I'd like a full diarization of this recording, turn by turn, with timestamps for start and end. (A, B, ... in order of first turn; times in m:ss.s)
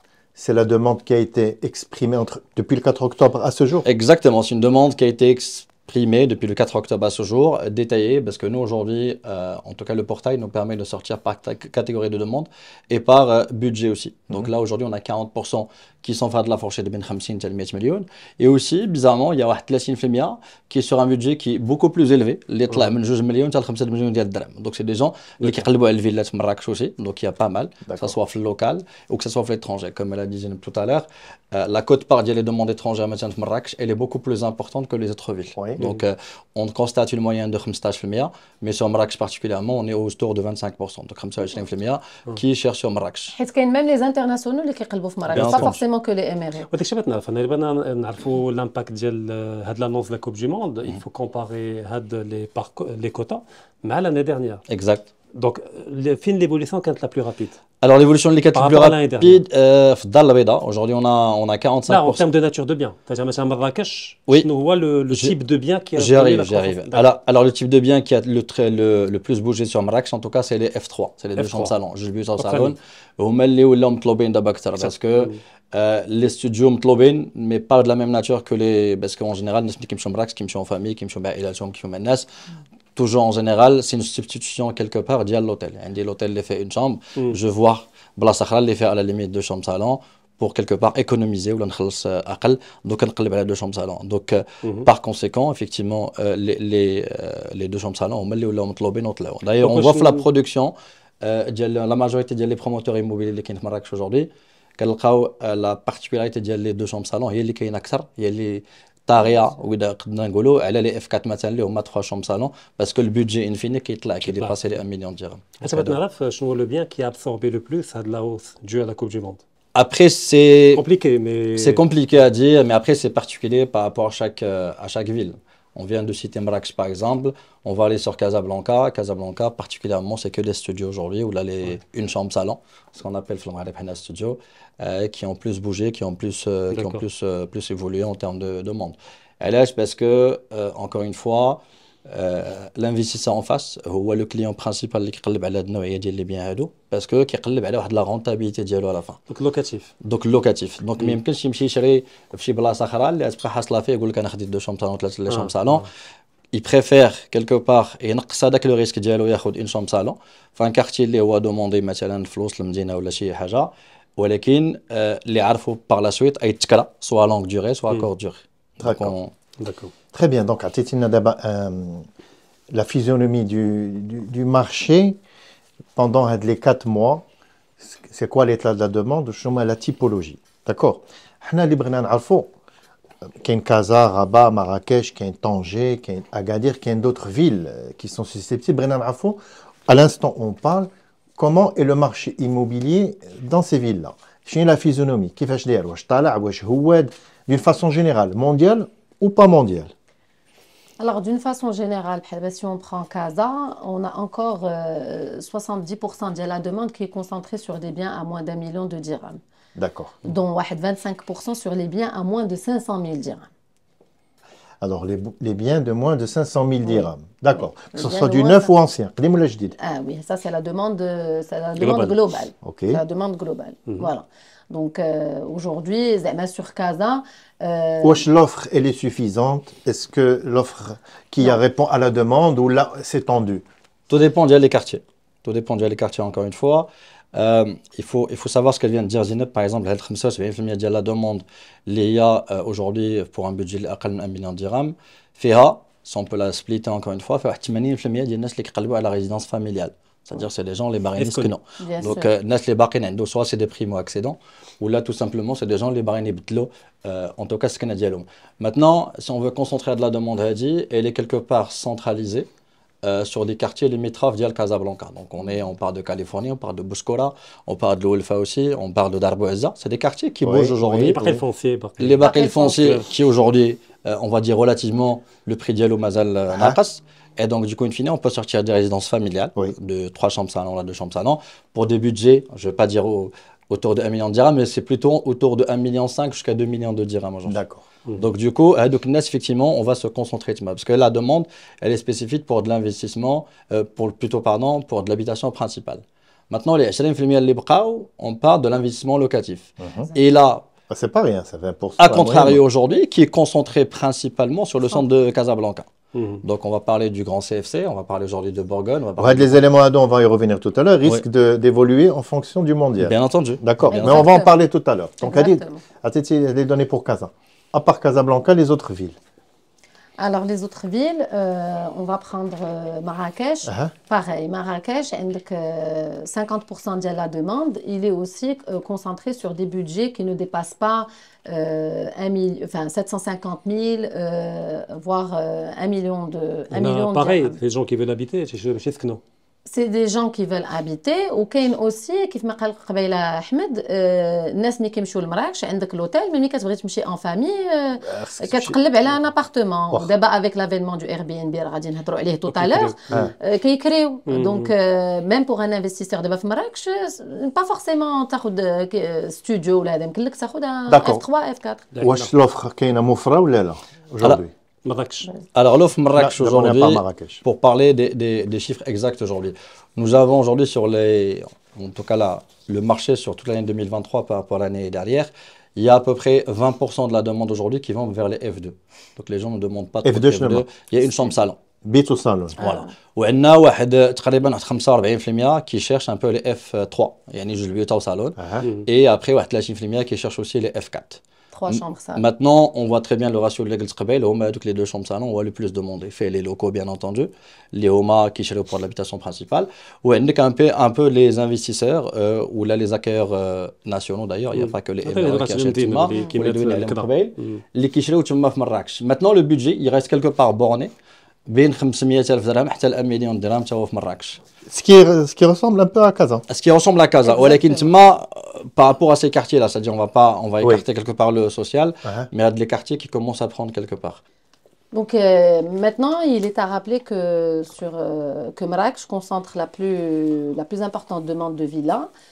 0:00.4-0:03.9 A
0:03.8-0:43.3 B
0:27.8-0:28.1 A
0:43.3-0:46.7 C
0:45.3-0:45.8 B
0:45.4-0:45.7 D
0:46.7-0:54.6 D
0:54.7-0:55.1 B
0:55.3-0:57.6 D
0:57.8-1:02.2 B
0:58.5-0:59.4 D
1:01.9-1:07.0 D
1:05.1-1:05.3 B
1:06.0-1:22.2 B
1:11.4-1:11.7 D
1:12.4-1:12.7 D
1:14.8-1:15.4 D
1:23.0-1:56.0 B
1:39.6-1:40.2 D
1:54.2-1:54.6 D
1:55.6-1:59.4 D
1:59.7-2:00.8 B
2:00.7-2:01.8 D
2:01.6-2:29.2 B
2:16.7-2:17.0 D
2:29.3-2:29.9 D
2:30.0-2:35.9 B
2:35.3-2:35.8 D
2:36.5-2:49.3 B
2:48.8-2:49.1 A
2:49.6-2:49.9 D
2:50.1-2:52.0 A
2:52.7-2:55.2 A
2:56.0-2:57.2 A
2:57.8-3:02.5 A
3:03.4-3:19.9 A
3:21.0-3:29.4 C
3:29.8-3:30.3 A
3:30.2-3:33.5 C
3:34.8-3:39.7 A
3:37.9-3:38.7 C
3:39.8-3:48.2 C
3:41.8-3:42.1 D
3:42.6-3:43.0 A
3:48.0-3:53.6 A
3:54.1-4:22.5 B
4:11.2-4:11.5 D
4:11.8-4:12.3 C
4:23.0-4:31.3 B
4:30.4-4:31.2 A
4:31.0-4:33.0 D
4:32.0-4:47.6 B
4:32.2-4:33.0 C
4:36.5-4:36.8 A
4:47.4-4:47.8 A
4:48.1-5:00.6 B
4:59.8-5:00.1 A
5:00.9-5:02.6 A
5:02.0-5:05.9 B
5:06.1-5:06.4 D
5:06.4-5:09.6 B
5:09.2-5:19.2 A
5:13.0-5:14.2 B
5:13.8-5:14.5 C
5:15.2-5:15.8 C
5:20.2-5:37.6 C
5:23.7-5:23.9 A
5:36.7-5:39.2 D
5:39.7-6:01.9 C
5:48.0-5:48.8 A
5:52.5-5:52.9 D
5:54.3-5:54.7 D
6:00.9-6:01.2 A
6:01.9-6:02.3 D
6:02.0-6:04.5 A
6:04.8-6:05.3 D
6:05.5-6:21.6 B
6:06.2-6:07.4 A
6:20.0-6:20.6 A
6:21.8-6:22.6 A
6:22.6-6:22.9 C
6:22.6-6:50.9 B
6:28.4-6:28.6 A
6:31.5-6:32.2 C
6:44.5-6:47.6 D
6:51.5-6:54.4 B
6:54.7-6:56.4 A
6:56.5-7:04.2 B
6:57.2-6:57.9 C
7:04.9-7:12.1 C